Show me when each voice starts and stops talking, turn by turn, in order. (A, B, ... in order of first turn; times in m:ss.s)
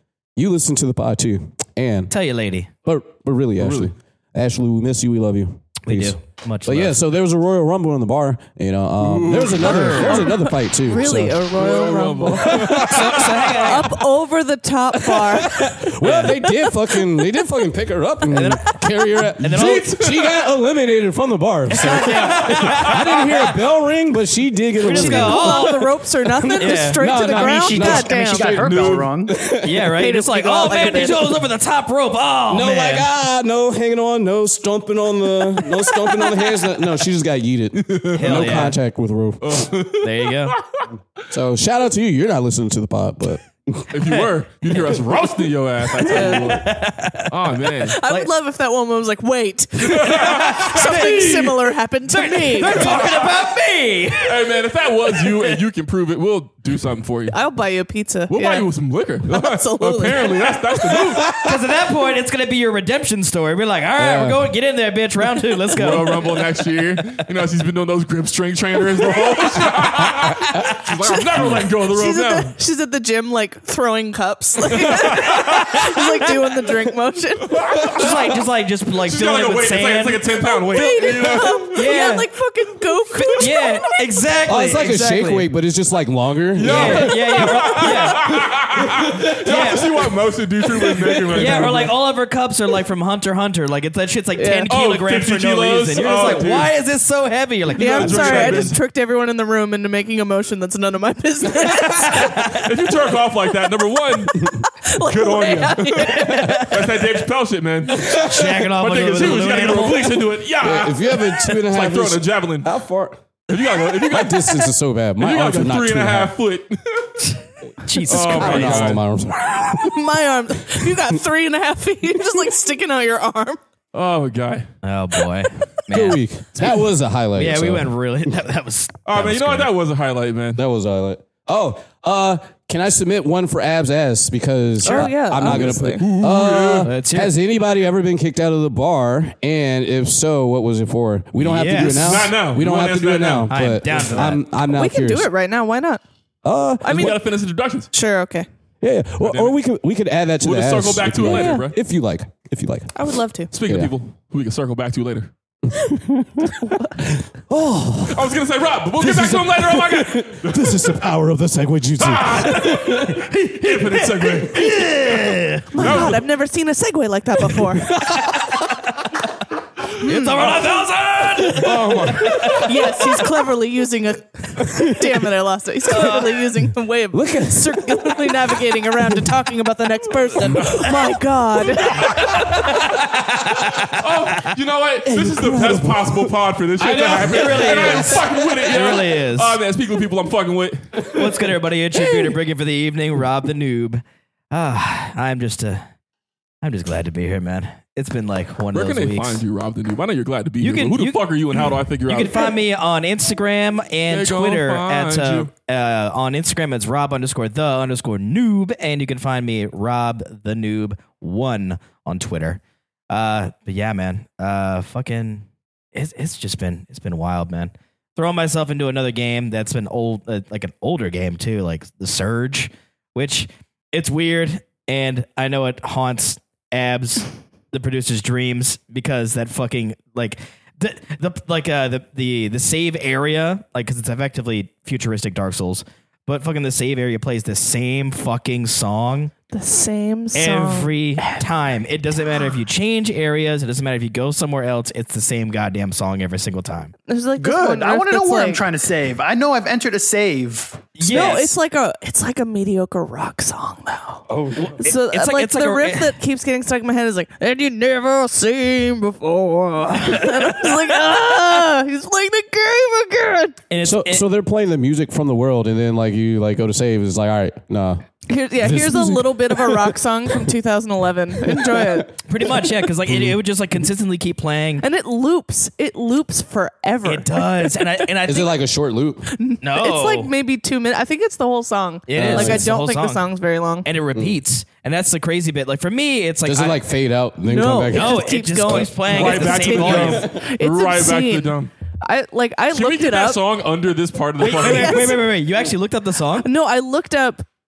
0:00.4-0:02.1 A
0:02.1-0:02.7 B
0:02.8-0:11.4 A
0:03.6-0:03.9 C
0:05.8-0:07.0 B
0:09.0-0:10.4 C
0:09.6-0:10.1 B
0:10.2-0:12.8 D
0:11.5-0:13.9 C
0:12.4-0:13.1 A
0:12.7-0:14.0 B
0:13.6-0:16.5 D
0:15.4-0:25.8 A
0:16.0-0:16.3 C
0:16.0-0:16.4 B
0:18.3-0:20.0 B
0:19.5-0:20.3 C
0:21.7-0:23.6 B
0:22.0-0:23.1 C
0:24.8-0:25.8 B
0:24.9-0:28.6 D
0:26.3-0:28.8 A
0:26.6-0:27.2 B
0:27.1-0:29.4 E
0:28.5-0:29.1 C
0:29.3-0:30.0 A
0:29.6-0:33.1 B
0:30.0-0:31.4 D
0:32.5-0:39.7 A
0:37.8-0:38.7 C
0:38.1-0:38.8 B
0:39.4-0:40.9 C
0:40.0-0:40.6 B
0:41.3-0:43.9 A
0:43.9-0:46.8 C
0:46.0-0:48.3 B
0:46.1-0:46.5 D
0:47.3-0:48.0 C
0:47.9-0:52.9 D
0:49.8-0:51.5 C
0:50.0-0:51.5 B
0:52.0-0:54.6 B
0:52.6-0:53.4 C
0:54.2-0:57.4 C
0:55.3-0:55.6 B
0:57.3-0:58.7 D
0:58.3-1:01.4 C
0:59.3-1:01.0 D
1:01.3-1:06.4 B
1:04.0-1:04.4 A
1:05.7-1:12.5 C
1:11.9-1:17.6 D
1:14.7-1:15.8 C
1:15.6-1:16.0 B
1:17.5-1:18.4 C
1:17.9-1:20.2 B
1:19.0-1:21.8 C
1:20.4-1:24.1 D
1:21.7-1:22.3 B
1:23.3-1:25.5 B
1:24.5-1:28.0 A
1:26.6-1:31.9 C
1:26.6-1:28.4 B
1:28.8-1:29.5 A
1:29.4-1:30.1 B
1:30.9-1:31.8 A
1:31.3-1:38.8 B
1:34.4-1:34.7 D
1:34.7-1:36.7 C
1:37.7-1:38.8 C
1:37.8-1:42.6 D
1:41.8-1:42.7 B
1:42.6-1:44.4 C
1:44.4-1:46.7 D
1:45.0-1:52.7 C
1:46.0-1:47.0 B
1:48.0-1:48.6 A
1:48.1-1:50.2 B
1:50.6-1:53.2 A
1:53.5-1:57.4 C
1:54.0-1:56.3 A
1:57.8-1:59.0 B
1:58.0-1:59.0 C
1:58.1-2:00.0 A
1:59.6-2:03.6 D
2:00.7-2:01.0 A
2:03.9-2:04.7 C
2:04.8-2:06.7 B
2:05.9-2:08.3 A
2:06.6-2:06.8 C
2:07.4-2:09.7 B
2:09.1-2:10.6 C
2:10.6-2:25.3 A
2:14.8-2:16.0 D
2:15.4-2:16.9 C
2:16.8-2:17.3 B
2:21.4-2:22.2 B
2:21.6-2:24.3 C
2:23.5-2:24.4 B
2:24.7-2:26.0 D
2:26.4-2:27.2 A
2:26.8-2:27.2 D
2:26.9-2:27.9 C
2:27.9-2:28.5 D
2:28.8-2:33.1 A
2:29.2-2:29.6 C
2:30.4-2:31.8 C
2:31.3-2:31.7 D
2:33.0-2:33.5 D
2:33.5-2:35.3 C
2:33.7-2:33.9 A
2:35.7-2:38.4 A
2:36.4-2:37.0 D
2:38.1-2:41.0 C
2:39.0-2:43.3 A
2:42.0-2:44.7 C
2:43.4-2:45.8 B
2:45.7-2:47.9 D
2:45.7-2:46.2 C
2:45.8-2:46.1 A
2:47.7-2:48.7 A
2:50.0-2:53.0 B
2:50.0-2:50.6 D
2:51.4-2:52.3 A
2:51.5-2:52.8 C
2:52.5-3:02.4 D
2:54.6-2:55.2 A
2:55.9-2:56.4 B
2:57.1-2:59.4 A
3:02.0-3:02.4 C
3:02.4-3:04.5 B
3:03.9-3:11.2 C
3:05.0-3:06.4 A
3:06.8-3:09.6 B
3:07.2-3:08.1 A
3:11.1-3:15.8 B
3:16.6-3:19.4 B
3:18.7-3:22.5 C
3:20.6-3:21.2 B
3:22.1-3:59.3 B
3:24.1-3:25.5 C
3:59.5-4:01.5 D
4:00.3-4:06.9 B
4:07.1-4:08.6 D
4:07.4-4:10.9 E
4:11.0-4:11.6 B
4:11.0-4:14.3 D
4:14.3-4:14.8 A
4:14.4-4:16.2 B
4:14.8-4:23.6 D
4:20.0-4:20.9 B
4:23.7-4:24.2 B
4:23.8-4:28.0 A
4:28.3-4:32.2 D
4:28.6-4:30.5 A
4:31.4-4:33.4 A
4:32.2-4:34.8 B
4:34.8-4:38.0 D
4:37.0-4:38.5 B
4:38.2-4:39.3 A
4:39.3-4:43.9 D
4:39.6-4:40.3 B
4:42.1-4:43.3 B
4:42.1-4:42.7 A
4:43.8-4:46.8 B
4:46.4-4:48.8 A
4:47.5-4:51.5 D
4:47.9-4:50.3 B
4:49.1-4:51.7 C
4:52.0-4:53.4 D
4:52.7-4:55.2 C
4:54.4-4:56.5 B
4:54.4-4:55.2 D
4:56.4-4:57.4 D